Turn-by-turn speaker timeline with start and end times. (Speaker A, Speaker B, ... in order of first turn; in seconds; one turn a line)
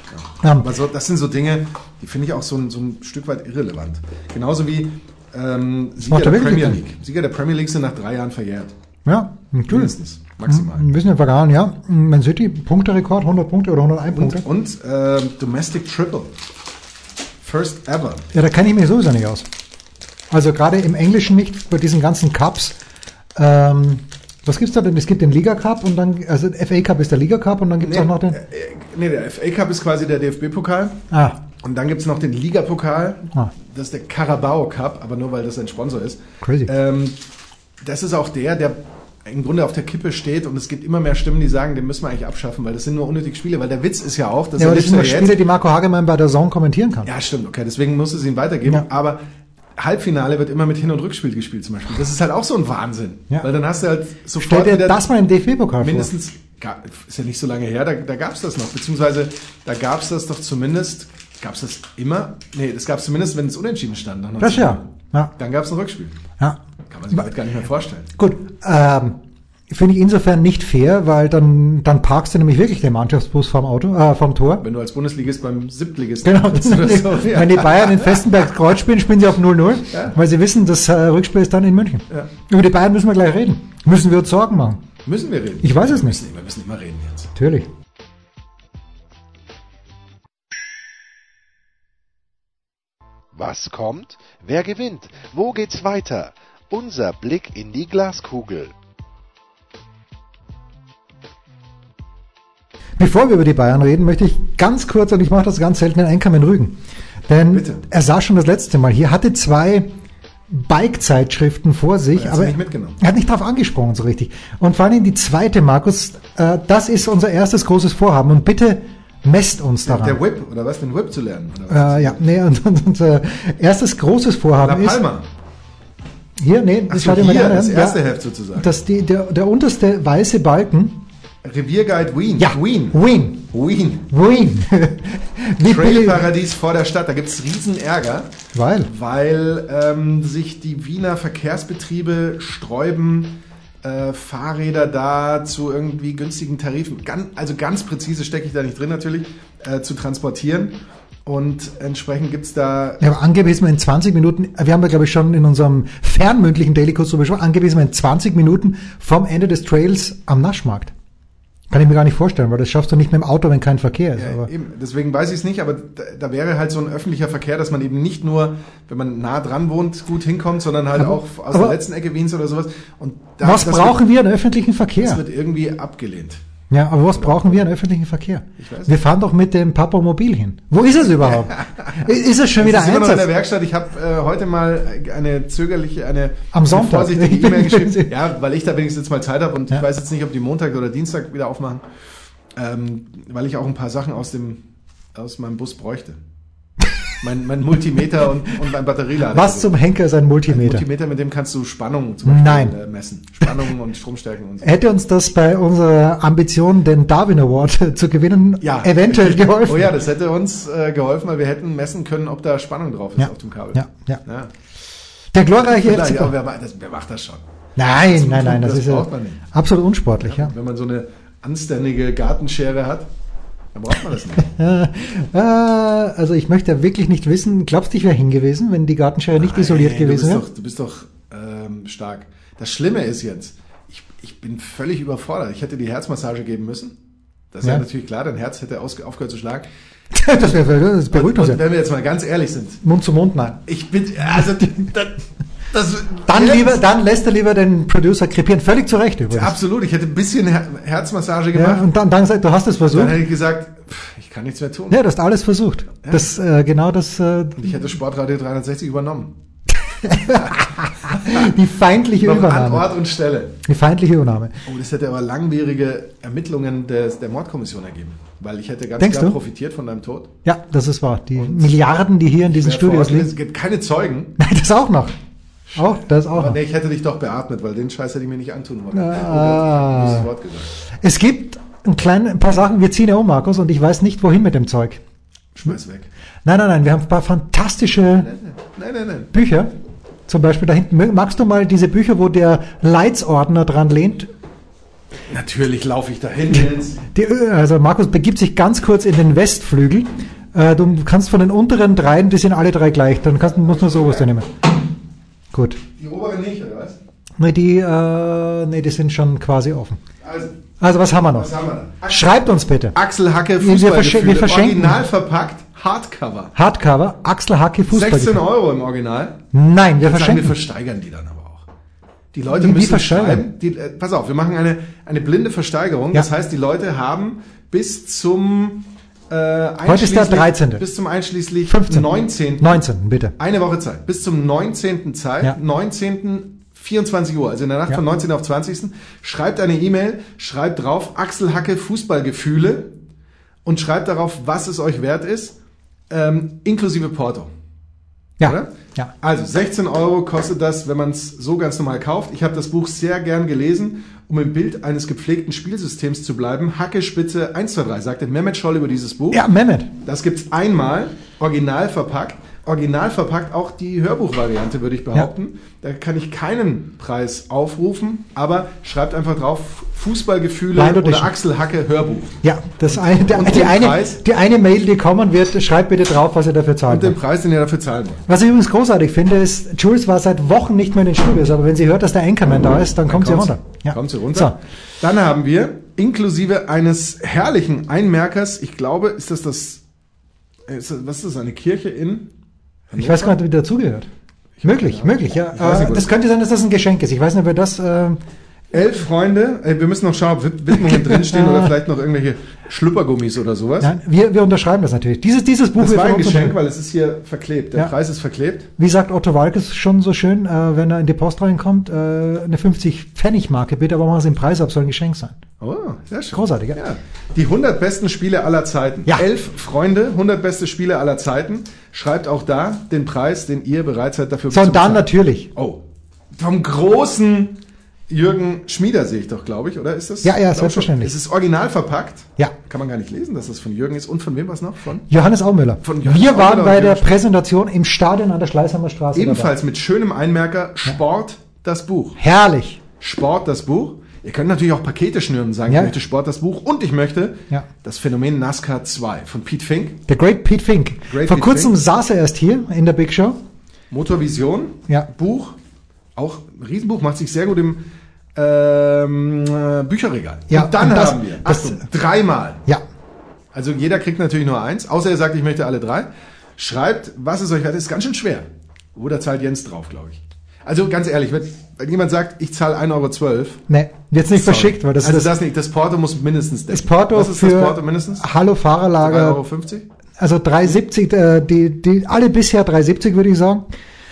Speaker A: 0.1-8.7
Speaker B: 0.4-0.7
Speaker B: 6.0-6.8
Speaker B: 9.1-9.9
Speaker A: 9.7-10.9
Speaker B: 10.5-14.5
Speaker A: 14.1-16.3
Speaker A: 17.4-18.3
Speaker B: 18.3-19.5
Speaker B: 20.3-22.8
Speaker B: 23.4-28.4
Speaker A: 27.8-31.0
Speaker B: 31.1-31.4
Speaker A: 31.6-37.2
Speaker B: 36.4-36.7
Speaker A: 37.8-45.4
Speaker B: 44.6-47.1
Speaker A: 47.0-49.2
Speaker A: 49.8-55.0
Speaker B: 54.4-56.1
Speaker A: 55.8-66.2
Speaker B: 64.4-65.3
Speaker A: 66.9-68.1
Speaker B: 68.2-69.2
Speaker B: 69.7-74.6
Speaker A: 74.6-78.3
Speaker B: 76.2-84.8
Speaker A: 79.9-80.2
Speaker A: 85.0-87.3
Speaker B: 85.6-86.2
Speaker B: 87.3-87.7
Speaker C: 93.3-98.7
Speaker B: 103.0-109.9
Speaker A: 107.5-107.8
Speaker B: 110.5-120.2
Speaker A: 112.1-113.0
Speaker A: 119.8-122.2
Speaker B: 121.7-125.0
Speaker A: 124.6-125.3
Speaker B: 126.4-128.0
Speaker A: 126.9-128.7
Speaker B: 128.6-131.1
Speaker A: 131.4-133.0
Speaker B: 132.4-133.5
Speaker A: 133.5-134.1
Speaker B: 134.1-136.3
Speaker A: 135.6-153.0
Speaker B: 138.5-138.9
Speaker B: 153.0-160.9
Speaker B: 161.7-164.5
Speaker A: 164.2-174.0
Speaker B: 171.0-171.8
Speaker B: 173.4-175.2
Speaker A: 175.0-176.4
Speaker B: 176.7-183.3
Speaker A: 177.2-177.7
Speaker A: 178.6-178.9
Speaker A: 181.0-191.8
Speaker B: 186.5-188.2
Speaker A: 192.6-194.6
Speaker A: 195.2-196.2
Speaker A: 197.2-199.8
Speaker B: 199.3-200.8
Speaker A: 200.5-204.8
Speaker B: 202.3-202.8
Speaker B: 204.6-210.0
Speaker A: 208.6-214.5
Speaker B: 213.2-214.2
Speaker B: 215.3-216.3
Speaker A: 215.7-219.4
Speaker B: 217.8-220.5
Speaker A: 220.2-223.1
Speaker A: 223.7-224.5
Speaker B: 224.4-230.4
Speaker A: 229.3-237.0
Speaker A: 237.5-239.7
Speaker B: 240.1-241.6
Speaker A: 241.1-242.8
Speaker B: 242.8-243.6
Speaker A: 243.7-246.8
Speaker B: 246.3-249.6
Speaker A: 249.3-251.9
Speaker B: 251.6-253.2
Speaker A: 252.9-255.0
Speaker B: 254.9-257.7
Speaker A: 257.6-259.3
Speaker B: 259.9-262.9
Speaker A: 261.2-261.5
Speaker A: 262.2-263.6
Speaker B: 263.6-264.6
Speaker A: 264.6-270.3
Speaker B: 269.0-269.4
Speaker B: 270.4-273.3
Speaker A: 271.4-271.8
Speaker A: 272.5-274.4
Speaker B: 274.4-275.2
Speaker A: 275.7-280.7
Speaker B: 275.8-276.6
Speaker B: 278.9-280.3
Speaker B: 281.0-285.0
Speaker A: 285.6-286.1
Speaker B: 286.4-288.3
Speaker A: 288.1-289.3
Speaker B: 289.3-289.7
Speaker B: 290.3-294.3
Speaker A: 295.3-297.0
Speaker B: 296.5-304.5
Speaker A: 303.4-304.3
Speaker B: 305.5-305.8
Speaker A: 306.0-307.0
Speaker B: 307.4-310.0
Speaker A: 310.2-310.6
Speaker B: 310.8-311.5
Speaker A: 311.3-312.4
Speaker B: 312.1-313.0
Speaker A: 312.9-316.5
Speaker B: 313.6-315.0
Speaker B: 316.6-318.4
Speaker A: 317.9-319.4
Speaker B: 319.5-320.5
Speaker A: 320.0-321.6
Speaker A: 322.3-332.8
Speaker B: 322.5-323.5
Speaker B: 329.9-330.8
Speaker B: 331.7-333.3
Speaker A: 333.4-342.9
Speaker A: 343.6-345.6
Speaker A: 346.1-347.5
Speaker B: 348.4-349.1
Speaker A: 348.4-359.4
Speaker B: 359.3-359.9
Speaker A: 360.0-374.2
Speaker B: 370.8-371.3
Speaker B: 372.4-377.2
Speaker A: 376.9-378.2
Speaker B: 378.3-384.6
Speaker A: 383.1-389.8
Speaker A: 390.7-392.3
Speaker A: 392.9-393.4
Speaker B: 392.9-394.1
Speaker A: 394.6-396.1
Speaker B: 394.6-398.2
Speaker A: 398.7-403.9
Speaker B: 400.8-401.7
Speaker B: 403.8-406.6
Speaker A: 405.8-408.7
Speaker B: 408.8-415.4
Speaker A: 415.6-435.1
Speaker B: 416.3-416.8
Speaker B: 424.5-425.5
Speaker B: 430.2-431.1
Speaker B: 435.1-439.5
Speaker A: 435.8-437.2
Speaker A: 439.1-442.2
Speaker B: 442.2-442.8
Speaker A: 443.0-450.0
Speaker B: 445.7-445.9
Speaker B: 450.1-453.4
Speaker A: 451.1-451.8
Speaker A: 453.9-455.6
Speaker A: 456.2-462.6
Speaker B: 460.5-461.8
Speaker A: 463.5-473.6
Speaker B: 473.7-475.3
Speaker A: 474.4-478.3
Speaker B: 476.7-479.4
Speaker A: 479.0-479.9
Speaker B: 480.2-483.7